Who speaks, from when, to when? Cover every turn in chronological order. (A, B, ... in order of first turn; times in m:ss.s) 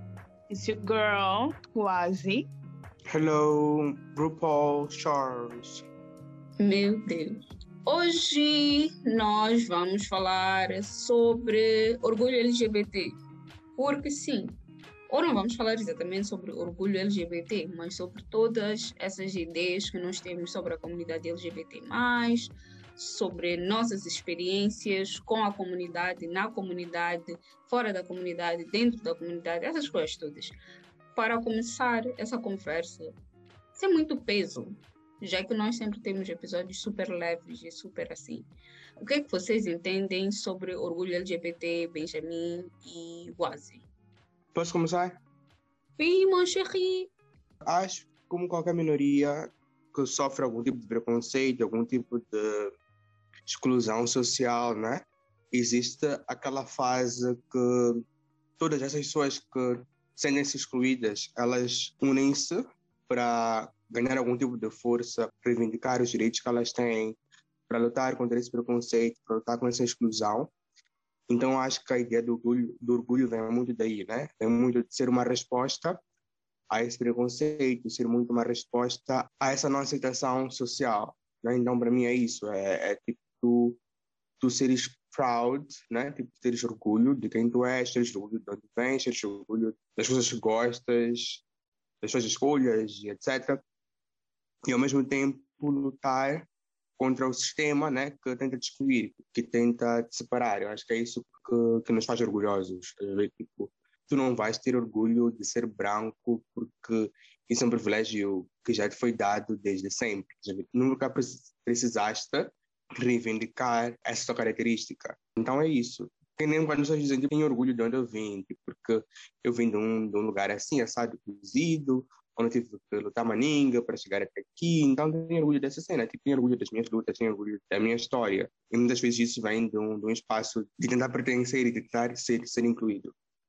0:00.5-0:02.5 A
0:03.1-0:05.8 B
0:06.6-0:13.1 C
0:13.8-0:14.6 C
0:15.1-0:30.6 C
0:31.2-0:33.1 C
0:33.8-0:38.5 C
0:39.0-0:43.8 C
0:44.5-0:45.2 B
0:46.0-0:47.1 C
0:47.6-0:52.7 B
0:53.5-0:58.0 B
0:58.6-1:07.2 B
1:07.7-1:10.5 B
1:11.3-1:16.0 B
1:16.7-1:23.8 B
1:24.4-1:31.4 B
1:32.0-1:33.6 B
1:34.7-2:13.1 B